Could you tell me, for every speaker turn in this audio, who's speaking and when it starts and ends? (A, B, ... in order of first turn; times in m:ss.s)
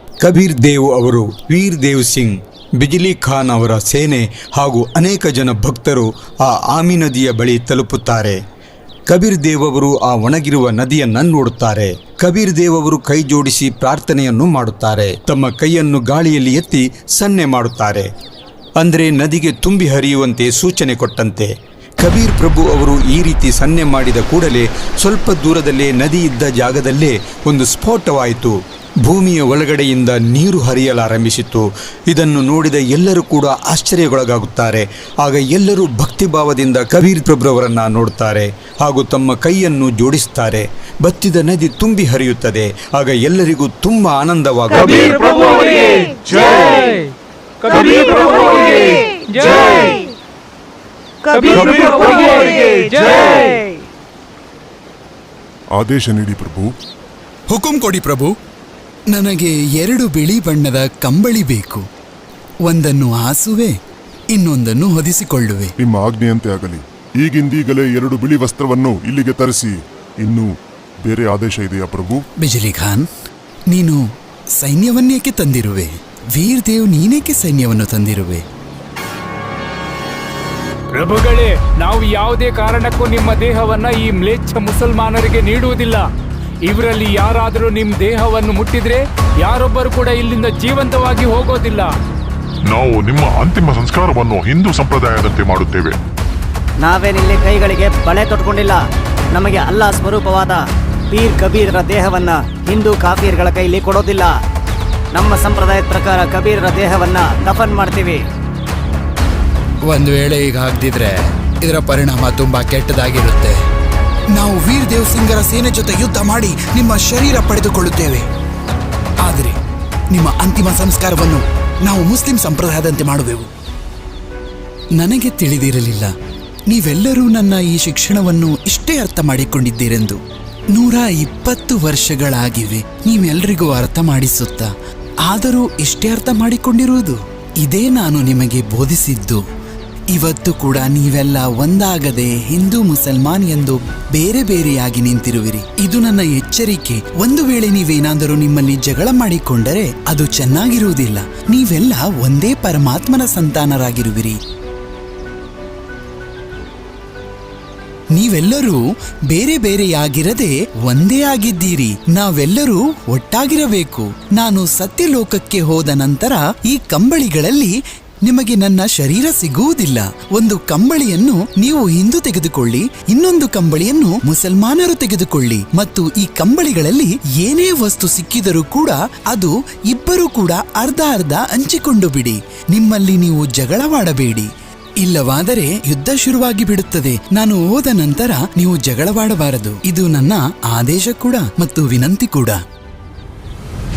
0:00.2-0:08.4 A
0:09.1-0:18.1 A
0:18.8-0:45.6 A
0:55.8-0:56.7 B
0:57.5-0:58.4 C
0:59.1-1:01.9 C
1:02.6-1:03.8 C
1:04.3-1:05.7 C
1:05.8-1:10.5 B
1:11.0-1:12.2 B
1:12.4-1:13.1 C
1:13.7-1:14.0 C
1:14.6-1:18.4 C
1:21.0-1:26.1 D
1:26.7-1:32.0 D
1:32.7-1:36.0 E
1:36.8-1:44.4 F
1:45.1-1:48.2 F
1:49.8-1:53.6 C
1:54.3-1:58.3 C
1:59.2-1:59.6 C
2:00.1-2:03.5 C
2:05.0-2:06.1 C
2:06.7-2:10.2 C
2:10.7-2:14.7 C
2:15.3-2:19.4 C
2:20.1-2:34.4 C
2:38.1-3:04.5 C
3:05.0-3:12.6 C